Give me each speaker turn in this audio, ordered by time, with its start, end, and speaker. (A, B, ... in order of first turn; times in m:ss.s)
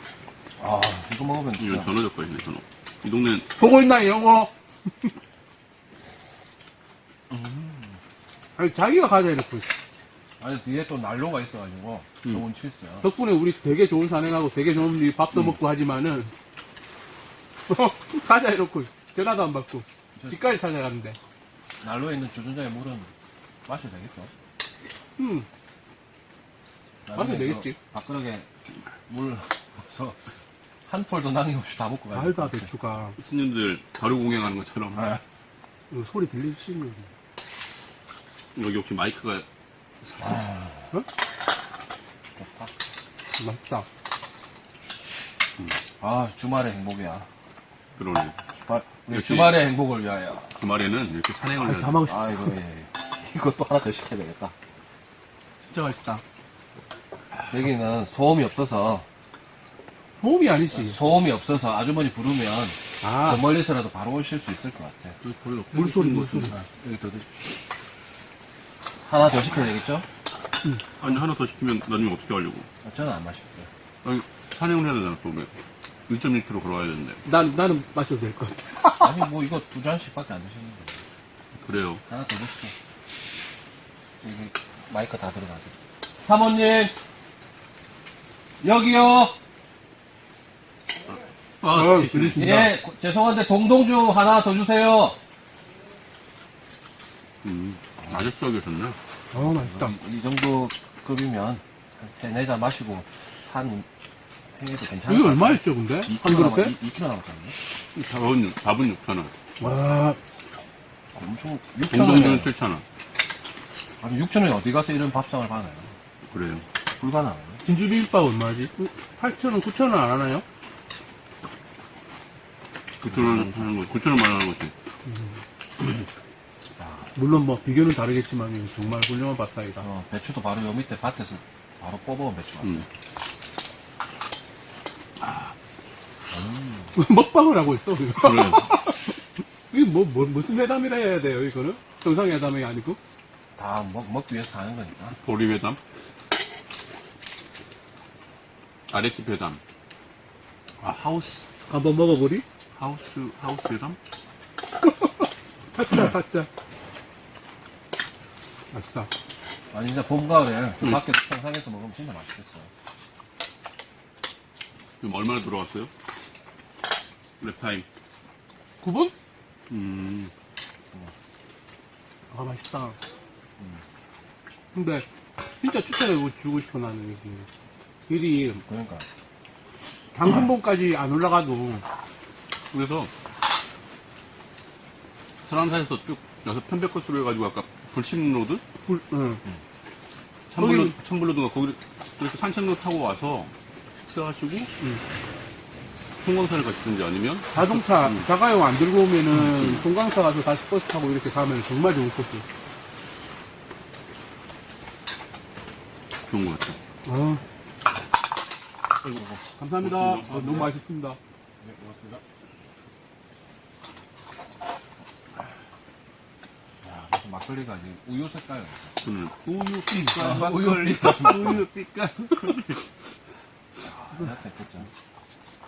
0:00.6-0:02.0 A
0:01.6-0:03.5 B
0:03.6-0:04.5 C
0:07.3-0:08.0 A
0:08.6-0:09.7 C
0:10.4-0:13.1 A
0:13.0-0:16.3 C
0:17.7-0:21.2 C
0:20.2-0:20.6 A
0:21.8-0:23.1 A
0:23.7-0:24.3 A
0:25.2-0:25.5 C
0:27.1-0:28.5 A
0:27.2-0:27.8 C
0:29.1-0:30.2 A
0:30.9-0:32.7 A
0:32.1-0:33.2 C
0:33.2-0:35.2 B
0:35.9-0:37.1 C
0:38.6-0:39.5 B
0:40.0-0:40.4 B
0:40.2-0:40.7 A
0:42.4-0:42.7 A
0:43.4-0:43.9 C
0:46.0-0:47.3 A
0:48.0-0:48.4 B
0:48.6-0:50.6 A
0:49.1-0:49.6 B
0:50.6-0:52.1 B
0:51.6-0:52.5 C
0:52.0-0:54.5 A
0:55.7-0:56.2 C
0:57.5-0:59.1 A
1:00.2-1:01.0 C
1:00.7-1:05.2 A
1:03.0-1:03.5 C
1:05.2-1:06.6 B
1:05.7-1:06.6 C
1:06.5-1:07.4 A
1:09.0-1:10.1 A
1:11.0-1:12.7 B
1:12.8-1:13.7 A
1:14.0-1:15.5 B
1:16.1-1:17.2 B
1:17.2-1:19.2 C
1:19.0-1:21.0 A
1:21.6-1:22.0 B
1:22.1-1:22.7 A
1:24.2-1:25.7 A
1:26.2-1:27.0 A
1:28.6-1:29.4 A
1:31.1-1:32.7 B
1:31.6-1:32.7 C
1:32.4-1:35.2 A
1:37.4-1:39.0 B
1:38.0-1:38.3 A
1:39.3-1:39.9 C
1:39.3-1:43.9 A
1:44.5-1:47.6 A
1:45.0-1:46.8 C
1:48.0-1:49.3 B
1:49.6-1:50.2 C
1:51.1-1:52.5 A
1:51.8-1:52.8 B
1:54.0-1:55.9 A
1:56.3-1:56.7 B
1:56.9-1:57.6 A
1:57.6-2:00.4 C
2:03.0-2:04.7 B
2:03.0-2:03.7 A
2:05.1-2:05.4 C
2:06.8-2:07.2 A
2:07.2-2:09.8 C
2:09.8-2:12.9 A
2:15.2-2:15.5 B
2:16.3-2:17.0 A
2:16.9-2:19.0 C
2:18.2-2:18.8 B
2:19.7-2:23.0 C
2:23.6-2:25.2 A
2:25.2-2:25.8 B
2:28.9-2:29.6 B
2:30.8-2:31.4 B
2:31.7-2:32.4 C
2:32.8-2:34.0 B
2:34.8-2:35.2 C
2:35.8-2:36.5 C
2:38.7-2:39.1 C
2:39.7-2:42.7 A
2:45.0-2:45.9 B
2:47.4-2:47.9 B
2:48.8-2:49.1 C
2:49.7-2:50.3 B
2:52.3-2:53.0 C
2:53.6-2:53.8 A
2:54.7-2:55.1 C
2:55.6-2:57.5 C
2:58.1-2:58.6 C
2:58.5-2:59.1 A
3:00.1-3:01.9 C
3:02.7-3:03.1 B
3:05.5-3:08.6 B
3:08.9-3:09.4 C
3:10.5-3:14.7 B
3:10.6-3:11.0 C
3:16.2-3:18.3 B
3:17.5-3:22.5 C
3:19.3-3:19.9 B
3:26.3-3:26.8 B
3:27.0-3:27.4 C
3:29.0-3:29.5 A
3:29.6-3:31.2 C
3:29.8-3:30.7 B
3:30.3-3:30.7 A
3:31.6-3:32.2 A
3:36.8-3:39.0 A
3:39.0-3:41.2 B
3:39.9-3:40.4 C
3:40.1-3:41.7 A
3:40.9-3:42.8 C
3:43.8-3:44.9 A